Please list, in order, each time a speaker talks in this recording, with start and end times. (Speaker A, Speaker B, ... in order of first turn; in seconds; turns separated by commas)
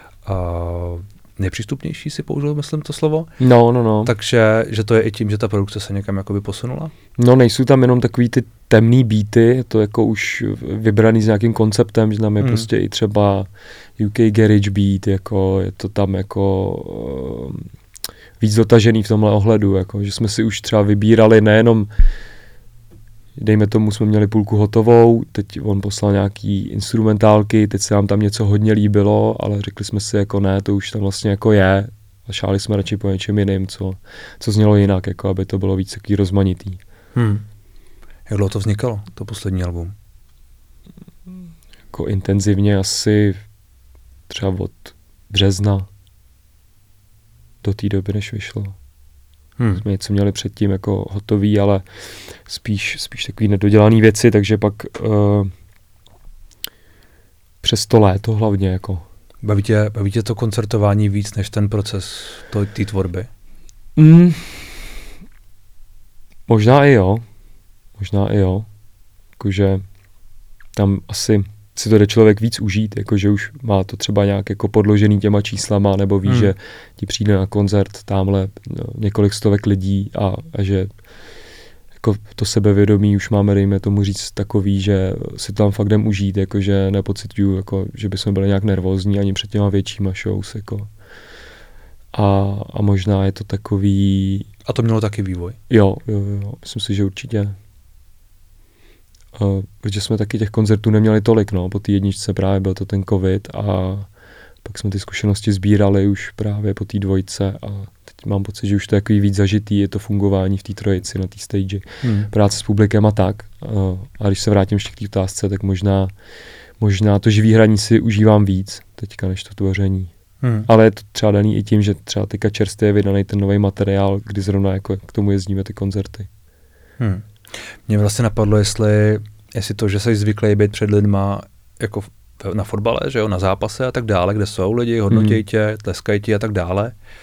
Speaker A: 0.2-3.3, Speaker B: 3.4-4.1, Speaker A: 4.0-6.9, Speaker B: 7.2-17.7, Speaker A: 12.4-12.7, Speaker B: 18.4-21.9, Speaker B: 23.4-36.8, Speaker A: 37.1-37.4, Speaker A: 38.3-39.9, Speaker B: 41.9-43.4, Speaker B: 44.3-45.9, Speaker B: 47.6-48.7, Speaker A: 49.6-49.8, Speaker B: 49.8-51.8, Speaker B: 52.5-55.5, Speaker B: 57.6-59.0, Speaker A: 59.4-63.3, Speaker B: 64.0-64.7, Speaker B: 66.5-67.2, Speaker B: 68.0-68.7, Speaker B: 69.4-69.8, Speaker B: 70.8-80.9, Speaker A: 76.2-76.5, Speaker B: 82.0-90.9, Speaker B: 92.1-94.5, Speaker A: 94.7-95.6, Speaker B: 95.7-97.5, Speaker B: 99.3-104.1, Speaker B: 104.6-116.1, Speaker A: 112.0-112.3, Speaker B: 116.8-120.1, Speaker A: 120.4-120.7, Speaker B: 120.7-126.3, Speaker A: 127.0-136.9, Speaker B: 135.1-135.4